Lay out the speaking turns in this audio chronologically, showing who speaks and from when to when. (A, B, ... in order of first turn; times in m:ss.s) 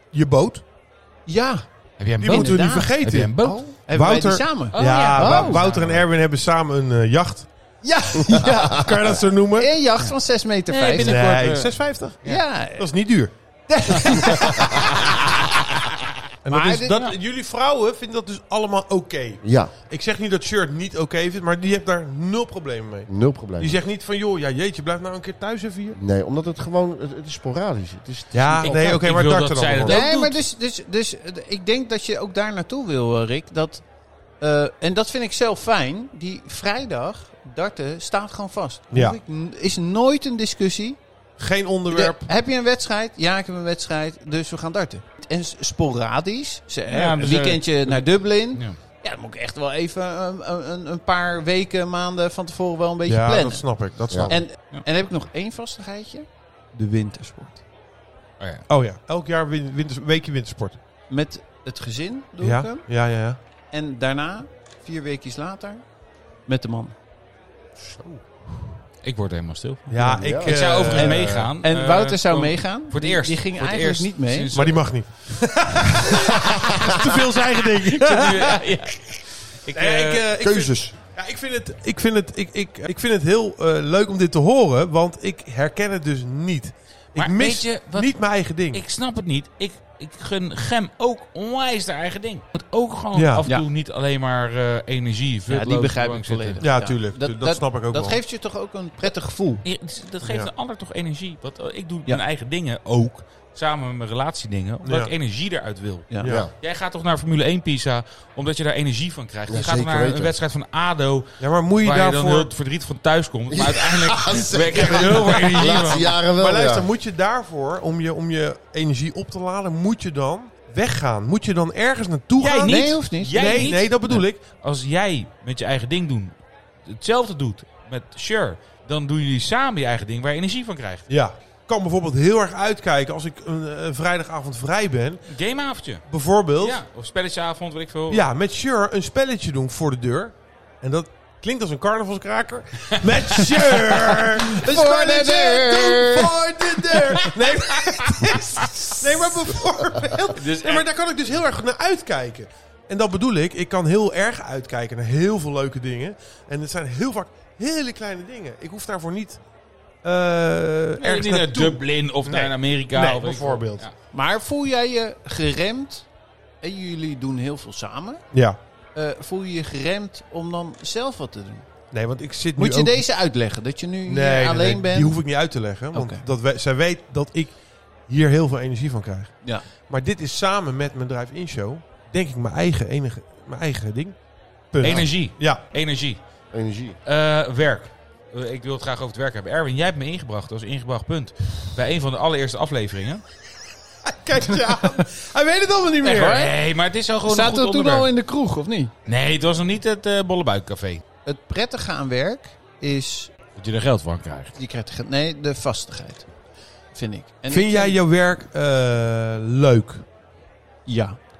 0:00.1-0:00.6 A
0:01.3-0:01.6 B
0:02.0-0:03.6 C
0:02.2-0:05.6 B
0:02.2-0:03.3 A
0:03.9-0:07.5 A
0:04.7-0:06.0 C
0:07.8-0:11.2 B
0:08.6-0:09.7 A
0:10.7-0:12.4 C
0:11.0-0:13.3 A
0:12.2-0:12.9 B
0:13.7-0:14.8 B
0:13.9-0:14.4 A
0:16.4-0:26.0 A
0:16.5-0:17.1 B
0:19.4-0:19.7 D
0:23.1-0:23.8 D
0:26.0-0:28.9 D
0:28.3-0:30.0 A
0:28.6-0:30.4 C
0:29.9-0:33.8 B
0:34.4-0:41.0 B
0:38.9-0:39.2 A
0:41.4-0:42.3 A
0:41.9-0:53.7 B
0:46.9-0:48.8 C
0:53.1-0:54.4 A
0:54.3-0:57.6 B
0:58.4-0:58.6 C
0:58.7-1:00.8 A
1:01.1-1:02.9 B
1:02.4-1:03.4 A
1:03.7-1:05.8 B
1:06.5-1:07.0 B
1:07.8-1:08.2 D
1:09.0-1:14.8 C
1:09.9-1:11.5 A
1:09.9-1:11.4 D
1:11.2-1:14.5 B
1:14.5-1:18.7 A
1:16.3-1:17.1 D
1:17.7-1:20.3 C
1:19.7-1:28.8 A
1:20.4-1:20.9 D
1:27.2-1:36.6 C
1:33.1-1:33.5 A
1:35.5-1:39.6 B
1:36.6-1:38.2 A
1:39.6-1:56.1 C
1:40.2-1:40.5 A
1:44.8-1:45.1 A
1:46.1-1:46.4 B
1:46.2-1:46.5 D
1:49.5-1:50.4 D
1:51.4-1:52.5 A
1:53.5-1:56.9 D
1:55.2-2:04.4 A
2:02.4-2:06.4 C
2:02.7-2:03.7 B
2:06.9-2:11.1 C
2:11.1-2:15.3 A
2:15.3-2:16.1 C
2:16.1-2:16.8 A
2:16.6-2:18.2 C
2:18.1-2:39.4 A
2:23.7-2:26.3 B
2:26.9-2:27.3 B
2:30.4-2:30.8 C
2:40.0-2:43.9 A
2:41.0-2:43.9 C
2:44.1-2:46.1 B
2:46.6-2:48.2 B
2:48.3-2:48.6 A
2:49.0-2:51.7 B
2:51.9-2:53.0 A
2:52.6-2:55.2 B
2:54.1-3:04.2 A
2:55.9-2:56.2 B
3:04.7-3:05.6 A
3:04.8-3:06.2 C
3:06.5-3:07.0 D
3:07.0-3:13.2 C
3:14.0-3:16.4 A
3:16.0-3:16.6 B
3:16.2-3:18.1 C
3:17.3-3:18.9 B
3:19.1-3:21.0 C
3:21.2-3:23.3 B
3:23.6-3:24.6 C
3:24.6-3:26.3 B
3:26.9-3:28.0 B
3:27.5-3:30.1 A
3:30.9-3:31.2 B